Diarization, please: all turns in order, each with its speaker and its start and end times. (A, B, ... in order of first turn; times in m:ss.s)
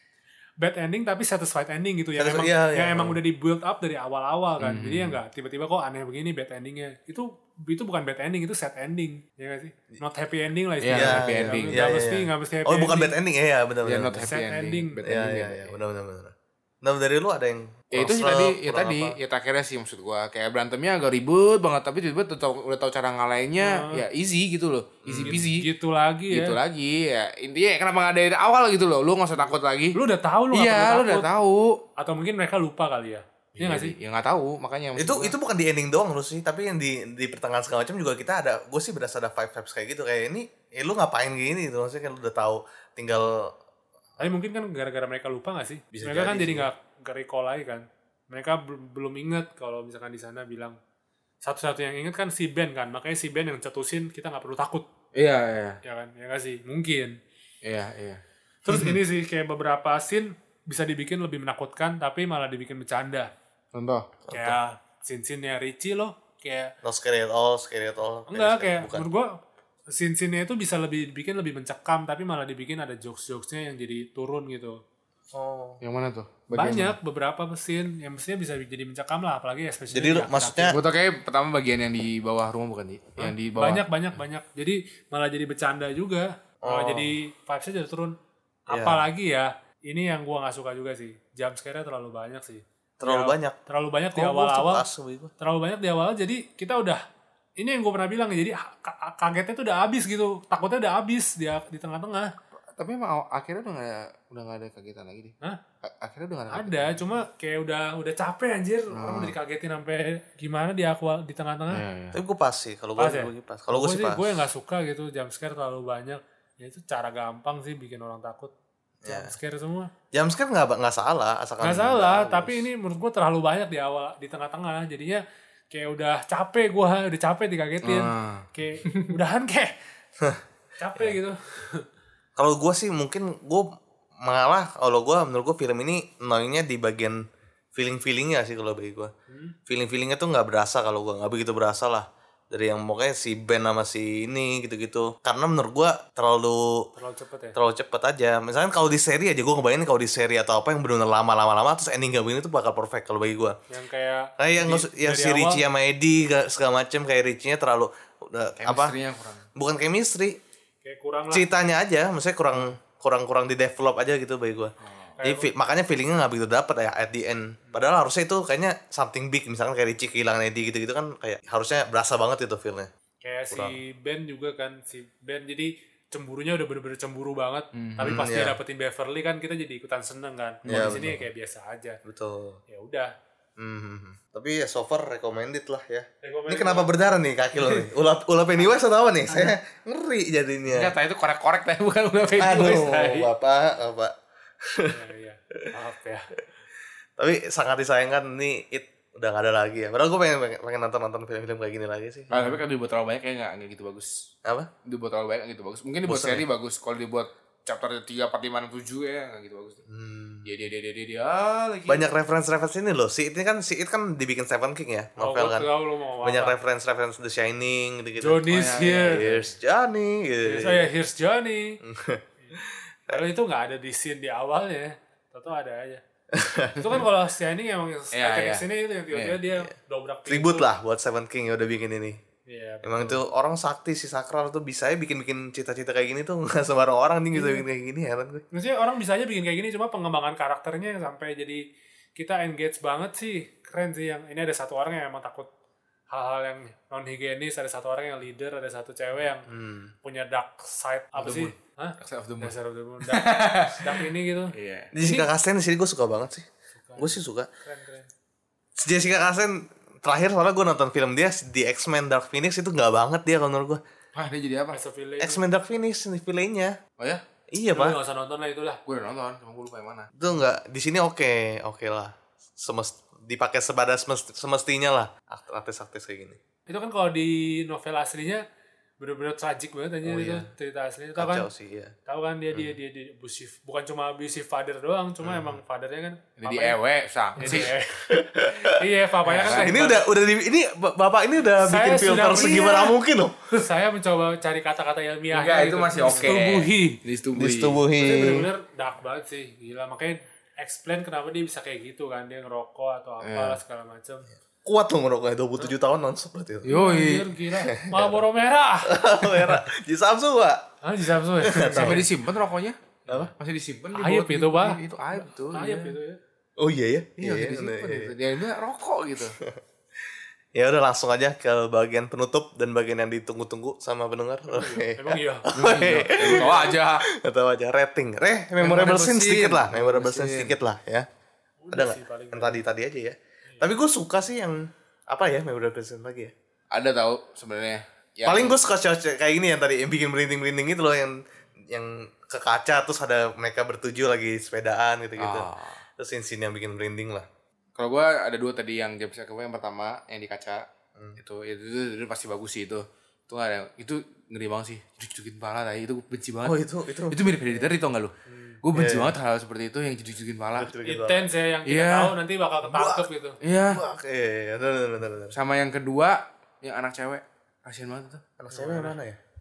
0:00.6-0:13.1 A
0:02.2-0:03.2 B
0:04.6-0:05.2 C
0:10.8-0:11.8 C
0:10.9-0:14.3 B
0:13.8-0:15.8 C
0:14.2-0:15.0 A
0:15.0-0:19.2 B
0:17.9-0:25.7 C
0:23.6-0:24.0 A
0:25.0-0:25.4 B
0:25.2-0:26.6 A
0:26.3-0:30.0 C
0:29.4-0:31.3 A
0:30.5-0:31.8 C
0:32.0-0:34.0 A
0:33.6-0:35.3 C
0:35.0-0:43.5 B
0:44.2-0:50.8 A
0:45.9-0:46.7 B
0:51.4-0:54.9 A
0:55.1-0:55.8 C
0:55.8-0:57.2 A
0:57.6-0:58.2 C
0:58.6-1:03.3 A
1:03.7-1:04.2 C
1:04.3-1:06.7 A
1:06.8-1:09.0 B
1:08.3-1:09.4 A
1:09.9-1:14.8 A
1:15.3-1:15.8 B
1:15.8-1:17.0 C
1:16.5-1:20.7 A
1:19.9-1:20.8 B
1:20.7-1:23.8 C
1:23.2-1:28.1 A
1:26.6-1:27.1 B
1:28.7-1:34.8 A
1:28.7-1:29.0 B
1:33.0-1:33.5 B
1:34.2-1:35.3 B
1:35.4-1:37.0 A
1:37.6-1:42.3 A
1:42.8-1:47.0 C
1:46.5-1:51.8 A
1:48.9-1:49.3 C
1:51.7-1:52.2 C
1:52.1-1:54.2 B
1:53.0-1:58.5 A
1:59.0-1:59.3 B
1:59.1-1:59.9 A
2:00.1-2:02.6 B
2:01.6-2:09.7 A
2:07.8-2:09.1 C
2:10.8-2:11.8 A
2:12.4-2:13.6 B
2:14.2-2:17.2 B
2:17.7-2:19.1 B
2:19.3-2:19.5 A
2:19.7-2:26.8 B
2:27.0-2:27.6 A
2:27.5-2:33.6 B
2:33.7-2:35.6 A
2:34.4-2:39.0 B
2:38.6-2:39.4 C
2:39.6-2:40.4 B
2:40.8-2:41.5 A
2:41.3-2:44.7 B
2:44.8-2:45.1 C
2:45.2-2:45.5 A
2:45.2-2:52.9 B
2:53.2-3:02.0 A
2:53.5-2:53.8 B
2:57.7-2:58.2 C
2:58.0-2:58.6 B
3:00.6-3:01.2 B
3:02.0-3:02.6 B
3:02.7-3:03.1 A
3:03.6-3:10.9 B
3:06.2-3:06.9 A
3:09.3-3:09.6 A
3:10.7-3:13.2 C
3:12.3-3:13.1 A
3:12.4-3:14.1 B
3:14.6-3:15.0 B
3:14.9-3:16.3 A
3:17.2-3:22.6 B
3:22.3-3:24.1 C
3:24.8-3:29.8 C
3:26.1-3:26.4 B
3:29.9-3:30.5 B
3:30.4-3:32.1 C
3:31.9-3:35.7 B
3:35.2-3:36.6 A
3:36.2-3:40.8 B
3:38.2-3:39.3 A
3:38.5-3:39.5 C
3:40.4-3:41.8 A
3:41.8-3:43.2 B
3:43.1-3:46.0 A
3:46.3-3:47.0 B
3:46.8-3:50.7 A
3:48.1-3:49.4 C
3:50.3-3:52.2 B
3:52.4-3:53.2 A
3:52.8-3:58.4 B
3:57.3-3:57.6 A
3:58.5-4:01.6 A
4:02.2-4:05.5 A
4:06.1-4:09.5 A
4:09.5-4:09.9 B
4:10.0-4:15.3 A
4:11.2-4:12.5 C
4:13.1-4:14.9 C
4:14.9-4:16.5 B
4:16.8-4:18.1 A
4:17.0-4:17.5 B
4:18.8-4:23.8 B
4:24.1-4:24.8 C
4:24.7-4:25.4 A
4:25.2-4:26.8 B
4:27.5-4:28.0 B
4:27.7-4:28.8 A
4:28.8-4:30.1 C
4:30.2-4:36.4 B
4:36.7-4:38.4 A
4:39.0-4:41.5 A
4:40.0-4:40.5 B
4:41.2-4:41.9 B
4:42.1-4:46.8 A
4:45.2-4:45.6 B
4:46.4-4:47.7 C
4:47.4-4:50.0 A
4:47.4-4:48.8 B
4:49.2-4:49.8 C
4:49.4-4:53.4 B
4:51.6-4:53.0 A
4:53.5-4:57.0 A
4:55.3-4:57.8 C
4:57.4-4:58.5 B
4:57.9-5:04.3 A
5:03.2-5:03.6 C
5:04.6-5:06.7 B
5:06.6-5:07.3 C
5:06.7-5:09.6 A
5:07.7-5:08.2 B
5:08.9-5:10.6 B
5:10.8-5:12.0 A
5:11.4-5:12.0 B
5:11.8-5:16.0 C
5:13.9-5:16.2 A
5:16.6-5:18.1 B
5:17.2-5:19.4 C
5:20.5-5:31.0 B
5:24.5-5:25.4 A
5:25.5-5:27.0 C
5:26.2-5:26.5 A
5:28.6-5:30.5 C
5:31.6-5:32.6 A
5:31.7-5:36.3 B
5:36.7-5:38.6 C
5:38.3-5:41.2 B
5:41.7-5:45.5 B
5:45.2-5:45.8 C
5:46.0-5:47.2 B
5:47.8-5:50.6 C
5:51.2-5:56.6 C
5:56.4-5:57.3 B
5:57.1-5:58.1 C
5:58.2-5:58.6 A
5:58.6-6:00.7 C
5:58.7-5:59.1 B
6:00.6-6:01.2 B
6:00.8-6:03.4 A
6:01.7-6:02.1 C
6:02.6-6:03.0 B
6:03.4-6:03.8 C
6:03.7-6:05.4 B
6:05.3-6:08.2 C
6:08.4-6:09.2 B
6:08.5-6:09.0 A